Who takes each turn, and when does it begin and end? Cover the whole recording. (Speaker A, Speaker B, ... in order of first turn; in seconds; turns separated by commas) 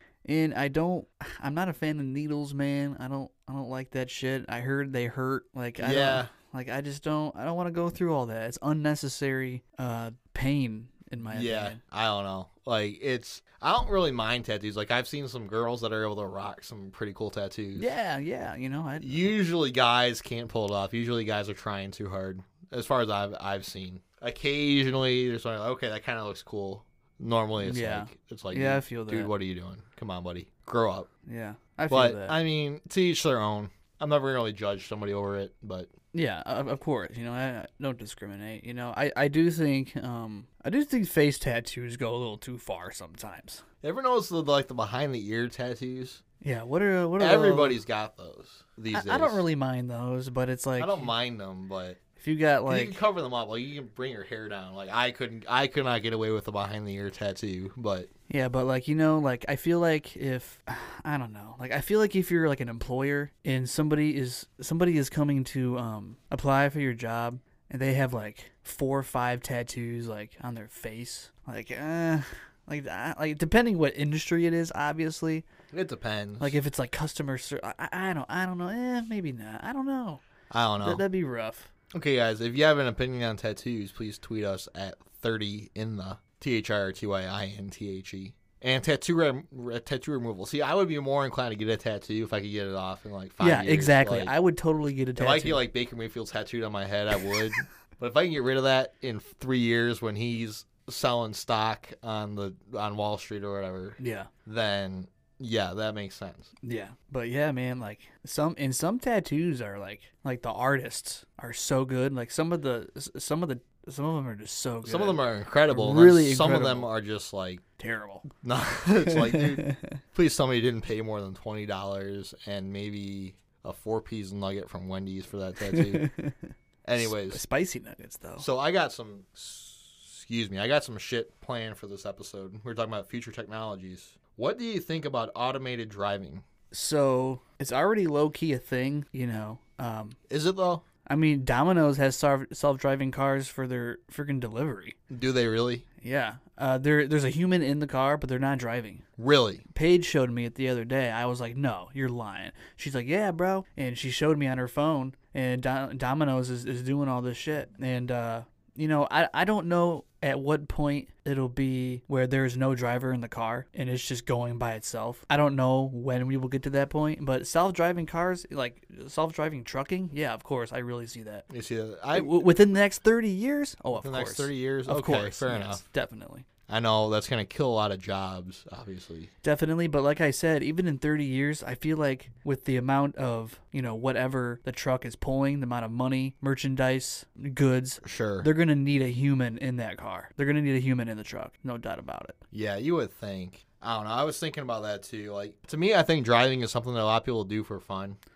Speaker A: 0.2-11.8, Speaker B: 5.8-6.3, Speaker B: 11.3-17.9, Speaker A: 17.8-19.3, Speaker B: 19.0-31.1, Speaker A: 27.6-29.3, Speaker A: 31.3-32.4, Speaker B: 31.9-35.9, Speaker A: 36.1-43.6, Speaker B: 43.8-46.2, Speaker A: 46.4-47.8, Speaker B: 47.2-49.4, Speaker A: 48.9-51.1, Speaker B: 50.8-52.0, Speaker A: 52.2-53.0, Speaker B: 52.7-58.1, Speaker A: 58.3-75.4, Speaker B: 75.7-76.6, Speaker A: 76.4-80.2, Speaker B: 80.5-81.0, Speaker A: 80.8-81.7, Speaker B: 81.9-94.3, Speaker A: 93.4-95.6, Speaker B: 95.2-106.5, Speaker A: 104.0-104.3, Speaker A: 106.6-116.9, Speaker B: 114.8-117.6, Speaker A: 117.8-118.2, Speaker B: 118.4-126.1, Speaker A: 119.0-120.0, Speaker A: 125.6-128.5, Speaker B: 126.8-127.4, Speaker B: 128.4-136.4, Speaker A: 136.7-140.2, Speaker B: 140.3-140.8, Speaker A: 141.1-145.0, Speaker B: 145.1-145.8, Speaker A: 146.0-149.0, Speaker B: 149.2-149.6, Speaker A: 149.7-171.5, Speaker B: 171.5-172.4, Speaker A: 172.1-176.5, Speaker B: 173.9-175.8, Speaker B: 176.7-179.3, Speaker A: 179.4-192.4, Speaker B: 188.0-188.5, Speaker B: 192.5-198.2